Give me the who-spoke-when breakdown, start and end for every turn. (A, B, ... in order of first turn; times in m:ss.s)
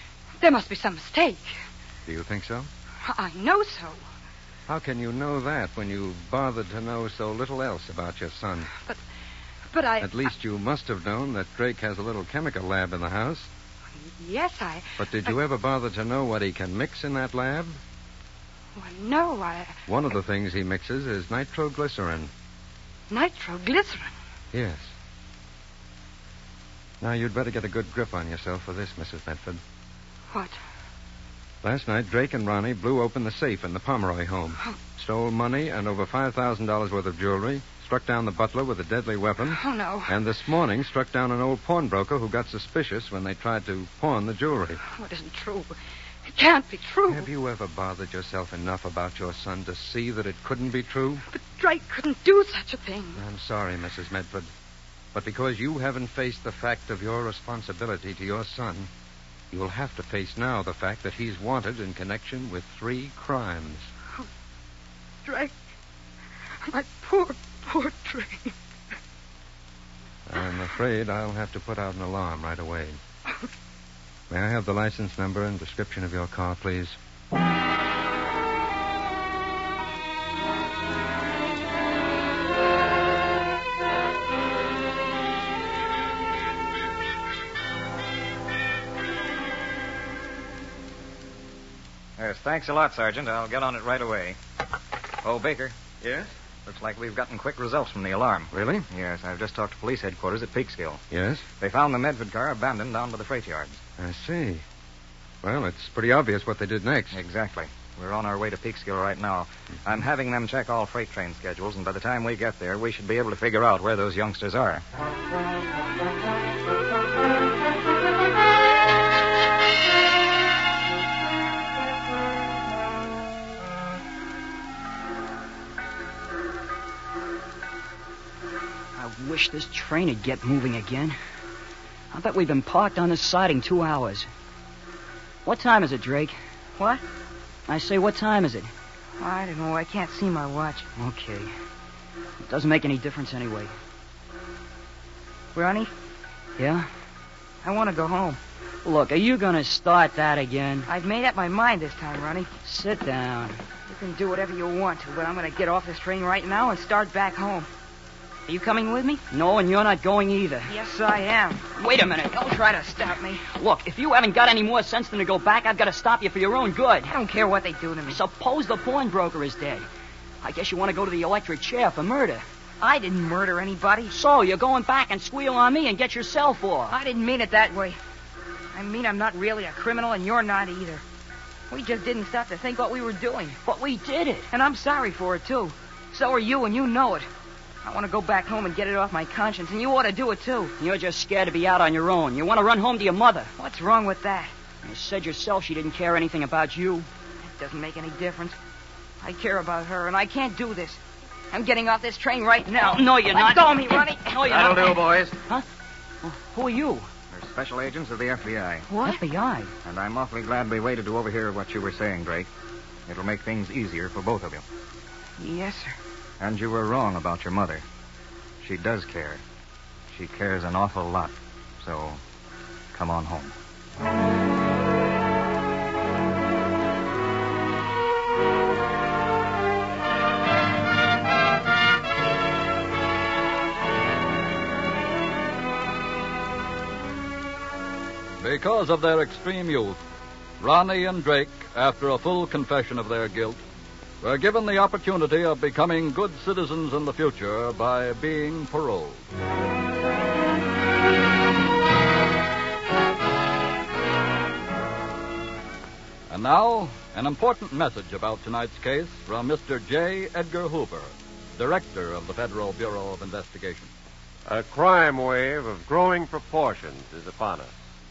0:00.4-0:01.6 A
0:02.1-0:02.7 B
0:03.1-0:04.0 A
0:04.7-0:08.7 B
0:09.7-0:10.2 A
0:10.0-0:13.5 B
0:14.1-0:15.3 A
0:15.0-0:17.8 B
0:18.8-0:19.8 A
0:19.9-0:22.3 B
0:23.1-0:24.1 A
0:24.5-0:24.9 B
0:27.0-0:29.6 B
0:30.3-0:30.6 A
0:31.6-0:44.8 B
0:39.5-0:40.1 A
0:45.0-0:45.8 A
0:46.3-0:47.3 A
0:47.1-0:51.2 B
0:51.3-0:53.2 A
0:53.2-0:54.5 B
0:55.1-0:58.9 B
0:59.5-1:03.9 B
1:05.2-1:05.5 A
1:06.7-1:08.5 A
1:10.3-1:13.0 B
1:14.3-1:17.0 B
1:32.2-1:34.4 C
1:35.2-1:35.8 C
1:36.0-1:36.3 B
1:36.6-1:41.0 C
1:38.5-1:38.9 B
1:41.1-1:41.4 B
1:41.6-1:43.8 C
1:44.0-1:44.6 B
1:45.4-1:47.2 B
1:47.1-1:54.8 C
2:09.0-2:11.2 D
2:12.1-2:14.3 D
2:15.4-2:16.4 D
2:16.8-2:17.0 E
2:17.7-2:18.7 D
2:19.2-2:20.9 E
2:21.0-2:21.5 D
2:22.4-2:23.7 D
2:25.6-2:25.9 E
2:26.6-2:26.9 D
2:27.6-2:28.4 E
2:28.8-2:30.9 D
2:30.9-2:32.5 E
2:32.6-2:33.6 D
2:33.9-2:37.7 E
2:38.5-2:39.2 E
2:39.3-2:40.7 D
2:40.7-2:41.7 E
2:41.8-2:42.4 D
2:42.3-2:43.4 E
2:43.5-2:47.1 D
2:47.1-2:48.2 E
2:48.1-2:49.8 D
2:50.4-2:52.4 D
2:52.8-2:54.1 E
2:54.1-2:57.0 D
2:56.9-2:58.0 E
2:58.7-3:01.0 E
3:01.7-3:03.6 E
3:03.6-3:04.5 D
3:04.5-3:07.3 E
3:07.8-3:10.7 E
3:10.8-3:13.5 D
3:13.6-3:14.5 E
3:14.8-3:17.1 D
3:17.4-3:18.6 E
3:19.2-3:21.0 E
3:21.5-3:25.0 E
3:22.7-3:25.6 D
3:24.6-3:25.4 C
3:26.2-3:27.1 D
3:27.3-3:28.9 C
3:28.9-3:29.2 E
3:29.0-3:29.7 D
3:29.8-3:32.5 C
3:33.1-3:34.6 C
3:35.4-3:36.0 E
3:36.4-3:37.8 C
3:38.6-3:39.4 C
3:40.1-3:42.2 C
3:42.9-3:43.5 C
3:58.4-4:00.0 F
4:00.6-4:03.6 F
4:04.2-4:09.2 F
4:16.3-4:23.9 F
4:24.5-4:27.7 G